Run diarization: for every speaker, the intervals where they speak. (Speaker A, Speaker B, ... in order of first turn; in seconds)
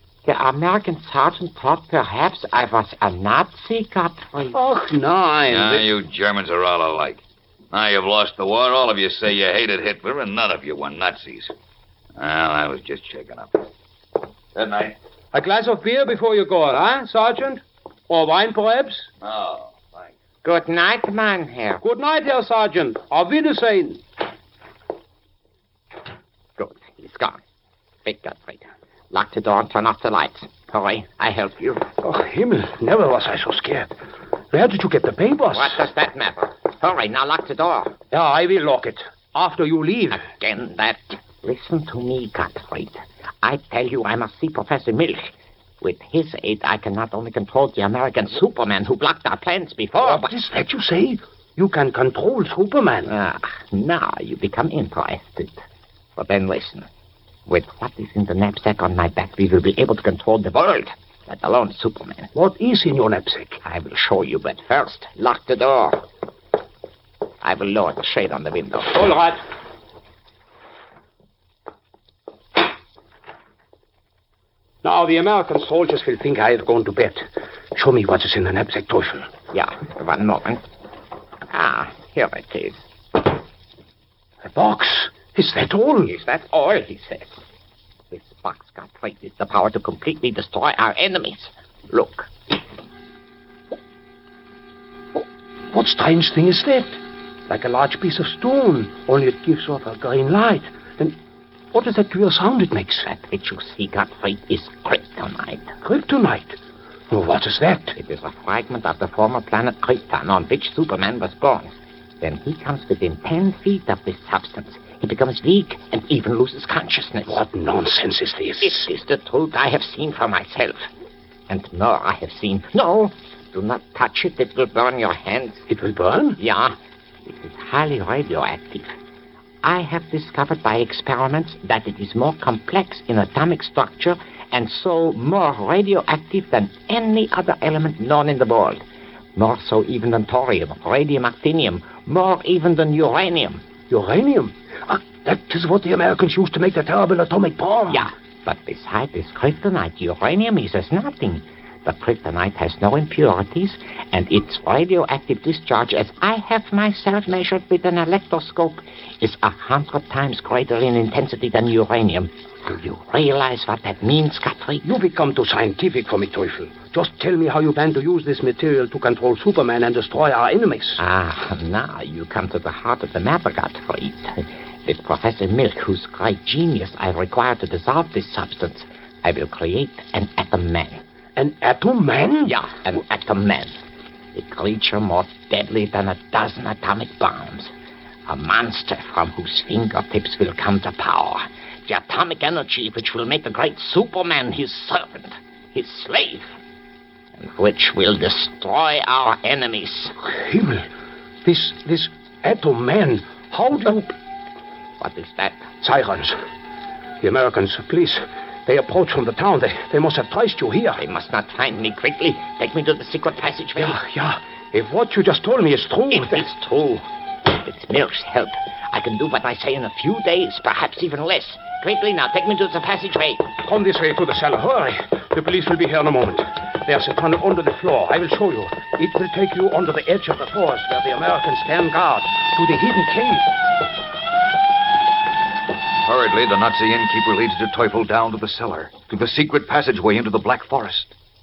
Speaker A: 0.2-4.6, 20.4-21.8, 26.6-27.4, 28.0-31.9, 35.5-38.0, 40.1-50.3, 53.1-55.6, 56.2-56.9, 57.5-62.3, 63.6-66.0, 67.4-69.1, 79.5-80.6, 81.5-82.8, 86.1-87.4, 88.1-92.3, 103.1-105.7, 108.0-117.4, 118.6-120.8, 121.5-125.7, 126.4-128.9, 129.6-138.8, 139.3-143.6, 147.9-164.9, 171.0-181.0, 182.5-183.8, 184.3-187.7, 188.3-196.6, 197.4-200.1, 205.0-205.7, 211.0-214.0, 216.1-223.5
Speaker B: 4.5-5.9, 15.3-19.1, 21.8-24.0, 32.0-33.9, 34.5-35.9, 38.1-40.2, 50.0-53.1, 62.3-63.6, 68.9-69.4, 74.8-79.3, 84.5-86.1, 95.2-101.2, 101.7-103.1, 105.8-106.6, 107.1-108.0, 117.3-118.9, 125.7-126.4, 143.9-148.1, 164.8-171.0, 181.4-182.6, 200.3-200.9, 201.4-204.1, 205.8-206.4, 207.2-211.0, 213.8-216.5, 223.6-233.6
Speaker C: 5.5-11.5, 12.2-13.7, 14.6-14.9, 19.2-20.1, 236.0-241.2